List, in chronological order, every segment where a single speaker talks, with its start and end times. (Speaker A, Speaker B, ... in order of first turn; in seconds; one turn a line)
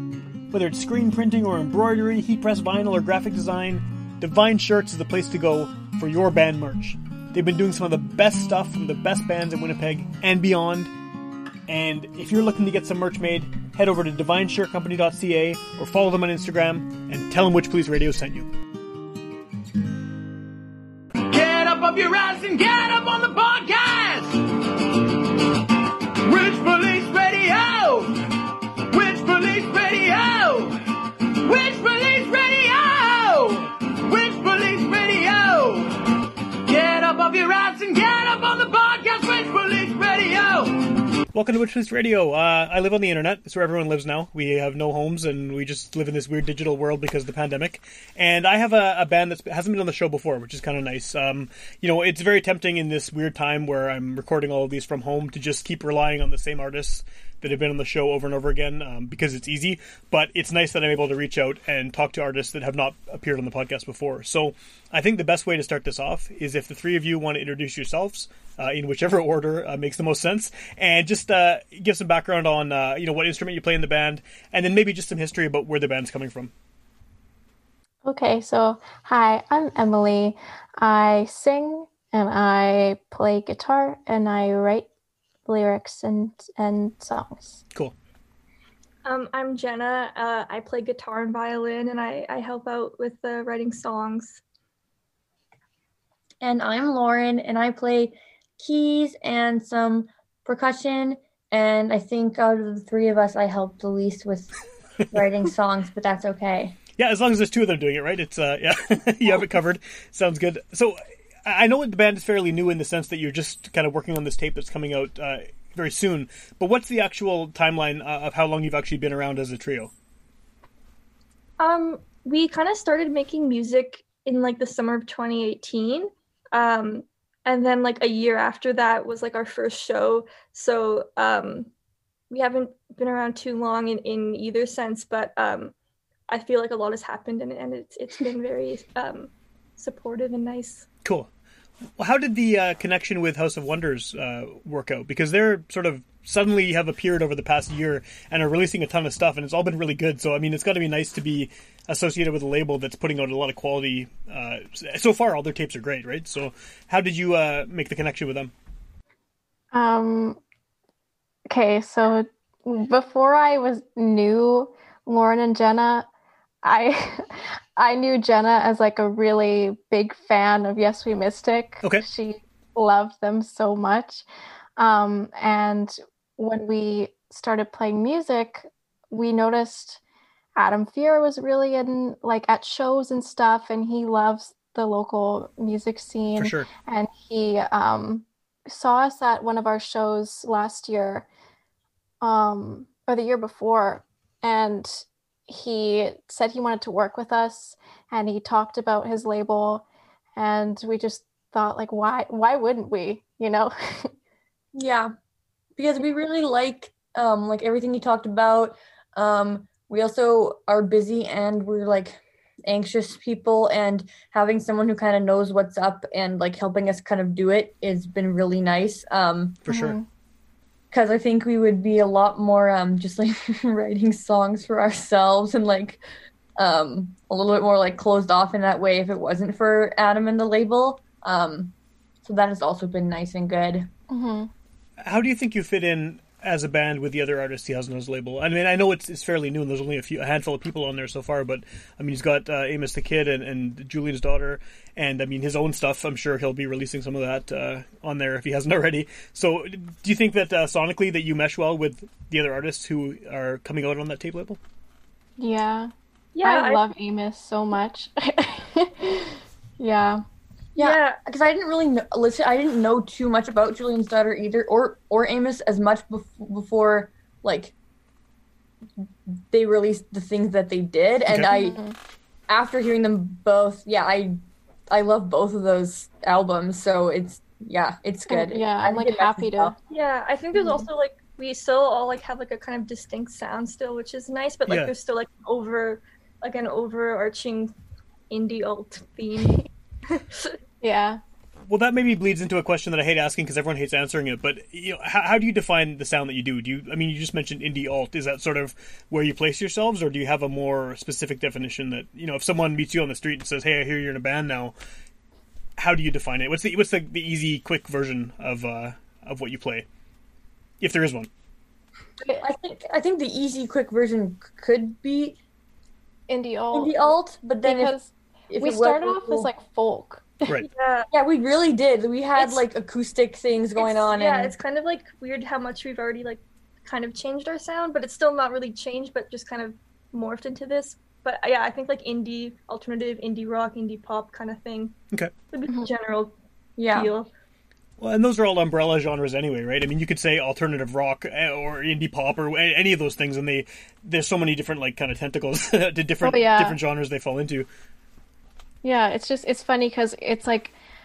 Speaker A: 0.5-10.9
Speaker A: 11.7-18.5
Speaker B: 21.3-24.4
Speaker B: 26.2-28.1
Speaker B: 28.9-30.8
Speaker B: 31.4-36.0
Speaker B: 36.7-40.8
Speaker A: 41.3-76.5
Speaker C: 78.0-84.9
Speaker C: 85.5-87.6
Speaker D: 89.0-94.4
Speaker E: 96.4-104.5
Speaker E: 105.1-106.8
Speaker A: 107.0-119.9
Speaker D: 121.6-131.7
Speaker D: 132.3-135.7
Speaker D: 136.3-140.9
Speaker A: 142.0-158.5
Speaker C: 159.7-160.4
Speaker C: 161.5-166.1
Speaker C: 166.6-174.3
Speaker C: 174.8-180.0
Speaker C: 180.6-191.3
Speaker A: 186.4-186.7
Speaker C: 192.2-199.8
Speaker C: 200.4-204.1
Speaker E: 204.7-205.1
Speaker E: 205.8-219.6
Speaker A: 219.7-220.0
Speaker C: 219.7-220.1
Speaker E: 220.9-226.0
Speaker E: 226.6-231.7
Speaker E: 232.2-233.9
Speaker C: 234.1-234.5
Speaker A: 235.0-254.6
Speaker C: 255.4-255.9
Speaker D: 256.4-256.8
Speaker C: 256.4-260.2
Speaker D: 260.8-261.2
Speaker E: 260.8-267.7
Speaker E: 269.3-271.8
Speaker C: 271.4-272.0
Speaker E: 272.5-274.4
Speaker E: 274.9-279.8
Speaker C: 278.3-279.7
Speaker D: 279.9-287.7
Speaker C: 280.6-280.9
Speaker D: 288.3-290.6
Speaker C: 290.8-291.2
Speaker A: 291.7-304.8
Speaker A: 305.8-309.9
Speaker A: 310.8-311.3
Speaker C: 312.2-312.5
Speaker E: 312.4-315.4
Speaker C: 316.3-320.5
Speaker E: 316.7-317.9
Speaker E: 318.5-319.5
Speaker D: 320.7-321.1
Speaker E: 321.1-324.5
Speaker D: 322.4-322.6
Speaker D: 323.8-334.9
Speaker D: 335.5-336.4
Speaker E: 336.8-337.1
Speaker D: 336.9-337.3
Speaker A: 338.0-347.7
Speaker C: 346.2-346.8
Speaker C: 348.8-350.8